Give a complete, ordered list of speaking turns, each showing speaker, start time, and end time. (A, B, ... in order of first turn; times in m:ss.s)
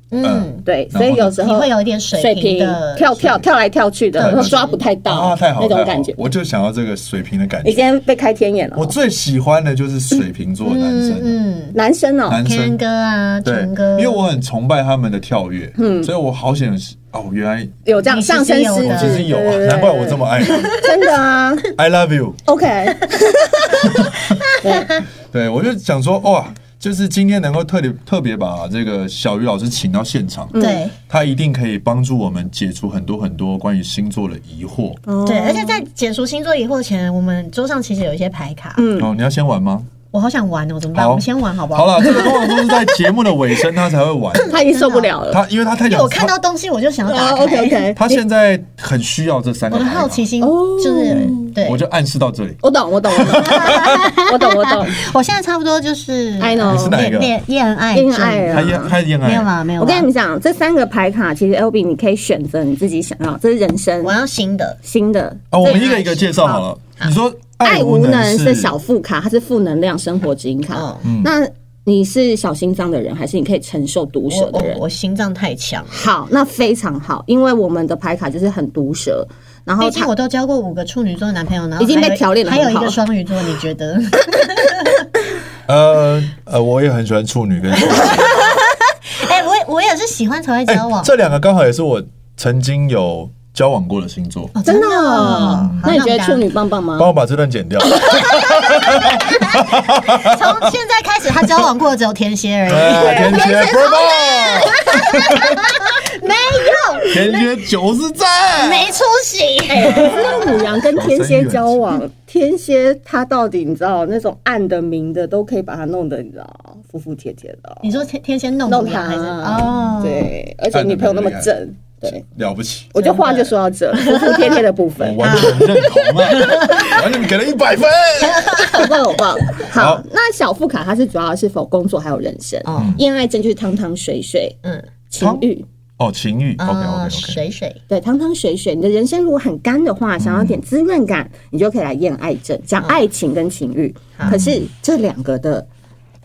0:00.1-0:03.5 A
0:00.2-0:01.3 B
0:00.6-0:06.2 C
0:04.2-0:04.8 A
0:04.2-0:07.8 B
0:07.6-0:08.9 C
0:08.8-0:11.4 B
0:10.6-0:11.8 A
0:11.7-0:12.4 C
0:12.3-0:12.8 B
0:12.4-0:14.2 A
0:13.4-0:17.8 B
0:15.8-0:16.1 C
0:17.9-0:21.7 C
0:18.0-0:19.3 A
0:18.8-0:20.8 B
0:20.4-0:20.9 A
0:21.7-0:22.4 B
0:22.5-0:25.0 C
0:23.8-0:24.4 B
0:24.4-0:24.9 A
0:25.3-0:35.0 B
0:30.5-0:30.9 C
0:30.6-0:31.0 A
0:35.1-0:35.8 C
0:35.2-0:38.9 A
0:38.8-0:39.1 C
0:39.0-0:39.9 B
0:40.1-0:43.0 A
0:40.9-0:44.5 B
0:44.4-0:45.2 A
0:44.5-0:45.4 C
0:45.3-0:46.3 B
0:45.9-0:47.9 A
0:47.1-0:48.2 C
0:48.0-0:50.3 B
0:49.7-0:51.8 A
0:50.4-0:51.5 C
0:51.1-0:52.6 B
0:52.6-0:55.0 C
0:53.1-0:54.1 B
0:53.5-1:00.1 A
0:56.4-0:57.0 C
0:56.7-0:57.4 B
0:57.9-0:59.0 C
0:58.5-0:59.5 B
0:59.8-1:04.2 C
1:04.0-1:04.8 A
1:04.8-1:14.8 C
1:05.5-1:08.8 B
1:10.7-1:11.1 A
1:11.0-1:11.3 B
1:14.3-1:16.1 A
1:15.9-1:20.1 C
1:19.8-1:25.1 A
1:21.8-1:23.0 C
1:25.7-1:28.6 B
1:27.8-1:31.1 A
1:30.7-1:34.5 B
1:34.5-1:36.5 A
1:34.6-1:37.1 C
1:35.2-1:35.9 B
1:37.0-1:40.7 B
1:38.0-1:47.4 A
1:41.4-1:41.7 B
1:42.7-1:45.7 B
1:42.9-1:45.1 C
1:46.6-1:46.9 C
1:47.1-1:48.9 B
1:48.6-1:50.6 A
1:49.7-1:58.0 C
1:49.8-1:52.0 B
1:57.8-2:00.3 A
1:58.7-2:02.2 C
2:00.7-2:01.5 B
2:02.1-2:02.9 B
2:02.9-2:05.8 C
2:03.0-2:04.6 A
2:05.0-2:08.9 B
2:05.2-2:07.1 A
2:08.2-2:09.0 A
2:08.7-2:14.6 C
2:09.7-2:10.0 B
2:12.6-2:13.0 A
2:15.1-2:15.7 C
2:15.2-2:15.5 B
2:16.0-2:17.4 B
2:16.6-2:17.8 A
2:17.9-2:25.7 C
2:20.2-2:20.6 B
2:24.2-2:24.7 B